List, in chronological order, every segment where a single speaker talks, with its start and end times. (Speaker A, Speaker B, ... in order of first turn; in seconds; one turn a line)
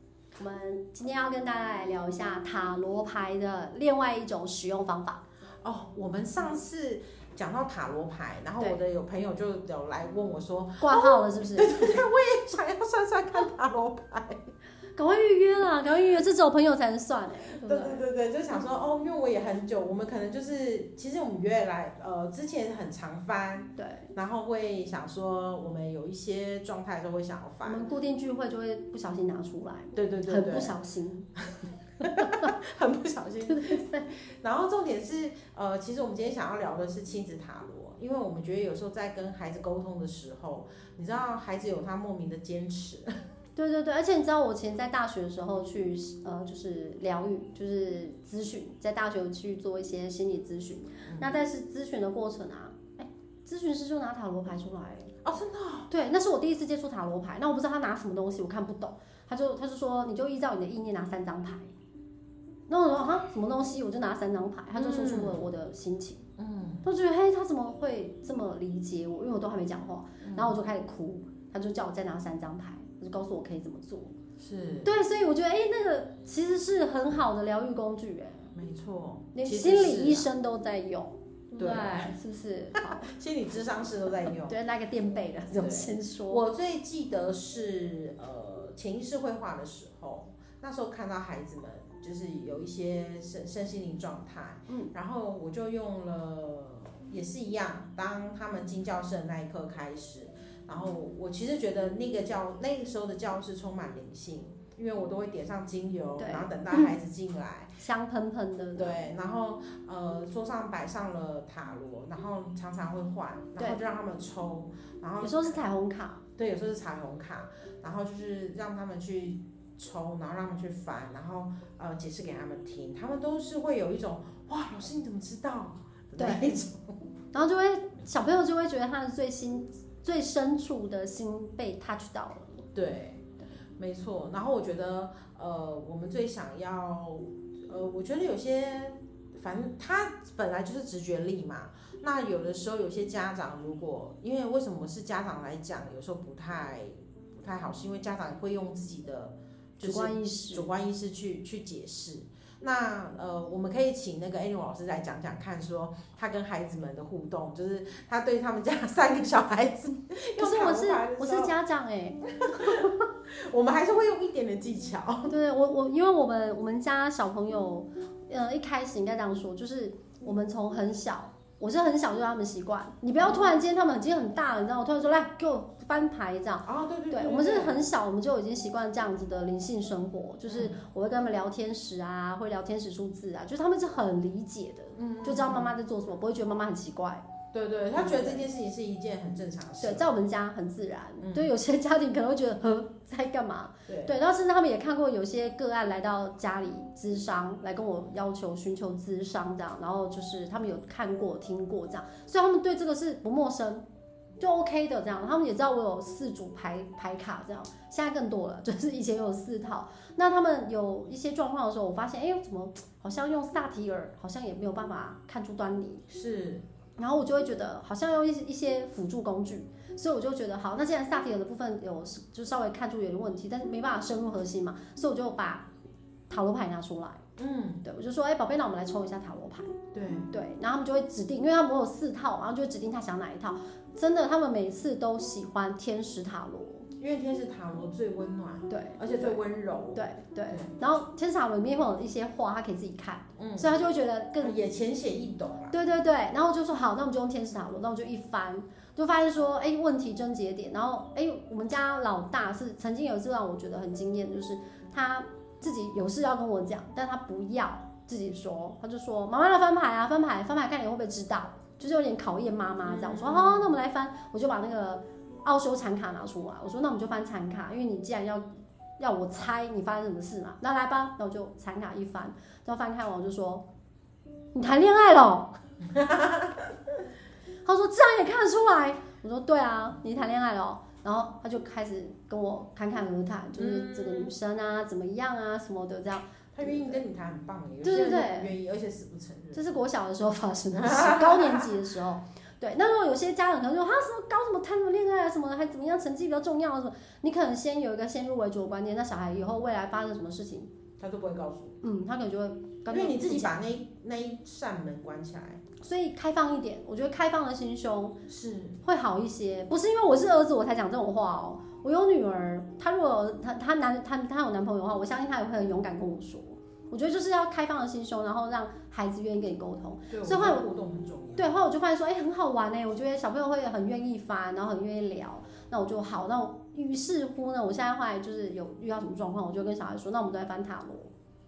Speaker A: 0.3-5.2
Speaker B: 5.6-14.5
Speaker A: 10.8-12.0
Speaker A: 14.9-18.0
Speaker B: 17.5-27.9
Speaker A: 23.8-24.1
Speaker A: 27.6-31.3
Speaker B: 29.9-30.7
Speaker B: 32.0-43.2
Speaker A: 32.0-32.5
Speaker A: 33.4-34.1
Speaker A: 43.5-55.1
Speaker B: 51.0-51.3
Speaker B: 55.2-55.9
Speaker A: 55.9-61.7
Speaker A: 62.7-66.2
Speaker B: 64.7-65.4
Speaker B: 66.4-66.8
Speaker A: 66.8-74.1
Speaker B: 70.2-70.6
Speaker B: 74.4-74.9
Speaker A: 74.8-78.5
Speaker B: 78.5-80.3
Speaker A: 79.3-83.1
Speaker B: 81.5-82.1
Speaker B: 82.7-84.6
Speaker A: 84.5-86.4
Speaker B: 85.5-107.7
Speaker A: 106.2-106.9
Speaker A: 107.8-109.0
Speaker B: 108.8-115.6
Speaker A: 115.2-116.2
Speaker B: 116.3-127.0
Speaker A: 126.2-126.6
Speaker A: 127.3-132.6
Speaker B: 132.7-161.6
Speaker A: 149.8-150.7
Speaker A: 160.4-162.9
Speaker B: 162.4-165.3
Speaker A: 165.3-187.3
Speaker B: 173.2-173.6
Speaker B: 176.6-177.8
Speaker B: 180.5-180.8
Speaker B: 184.9-185.7
Speaker B: 187.5-190.1
Speaker A: 187.9-188.4
Speaker A: 189.8-203.8
Speaker B: 191.2-191.5
Speaker B: 193.9-194.2
Speaker A: 204.4-216.0
Speaker B: 216.1-216.6
Speaker A: 217.0-225.7
Speaker A: 226.3-227.2
Speaker B: 227.4-227.8
Speaker A: 227.8-229.8
Speaker B: 229.9-230.3
Speaker A: 230.3-236.9
Speaker B: 237.0-241.0
Speaker A: 238.7-239.4
Speaker A: 239.9-244.6
Speaker B: 243.4-243.8
Speaker B: 244.4-245.8
Speaker A: 245.7-268.5
Speaker B: 262.8-263.7
Speaker A: 269.0-273.6
Speaker A: 274.5-275.5
Speaker B: 275.9-276.7
Speaker A: 277.6-287.0
Speaker B: 283.6-284.3
Speaker B: 286.5-289.6
Speaker A: 287.8-288.5
Speaker A: 289.5-300.7
Speaker B: 290.7-291.7
Speaker B: 301.0-301.8
Speaker A: 301.8-303.5
Speaker B: 302.9-305.6
Speaker A: 305.8-308.2
Speaker B: 308.3-308.8
Speaker A: 308.8-320.6
Speaker B: 320.1-321.5
Speaker A: 321.4-331.1